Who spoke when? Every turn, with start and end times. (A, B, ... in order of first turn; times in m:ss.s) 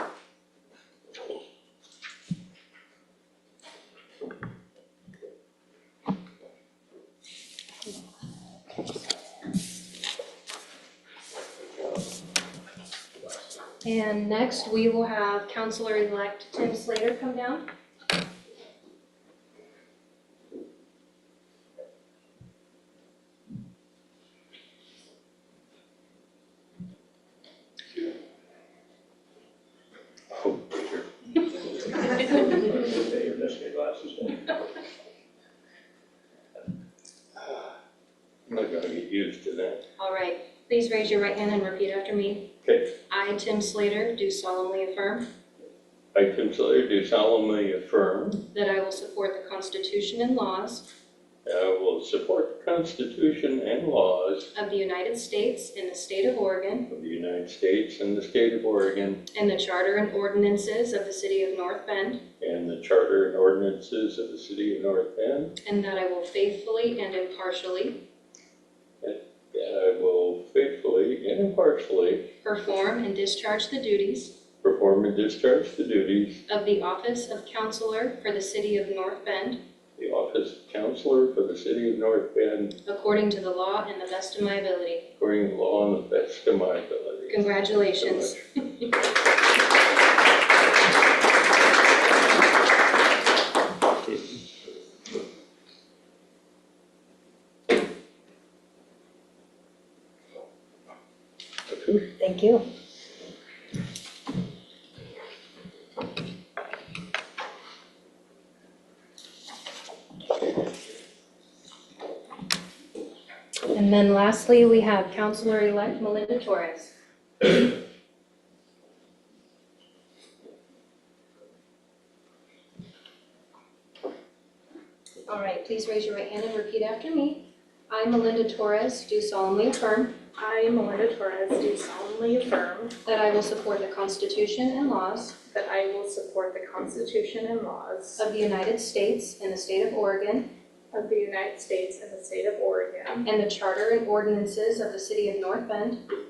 0:13.8-0:17.6 A
0:30.3-0:31.1 B
0:32.5-0:34.5 C
0:37.4-0:37.7 B
0:38.5-0:39.8 B
0:40.0-0:42.5 A
0:42.6-0:43.0 B
0:43.1-0:45.3 A
0:46.1-0:48.5 B
0:48.5-0:50.9 A
0:51.4-0:54.5 B
0:54.5-0:56.9 A
0:56.9-0:59.2 B
0:59.3-1:02.2 A
1:02.4-1:05.6 B
1:05.6-1:08.0 A
1:09.0-1:12.3 B
1:12.4-1:14.4 A
1:14.6-1:16.4 B
1:16.5-1:19.6 A
1:20.0-1:22.8 B
1:22.9-1:25.1 A
1:25.2-1:28.4 B
1:27.3-1:28.9 A
1:41.7-1:42.1 B
1:42.2-1:42.6 A
1:53.7-1:56.9 A
2:05.3-2:10.2 A
2:10.4-2:12.9 D
2:13.0-2:15.4 A
2:15.5-2:18.2 D
2:18.2-2:20.5 A
2:20.9-2:23.2 D
2:23.2-2:26.0 A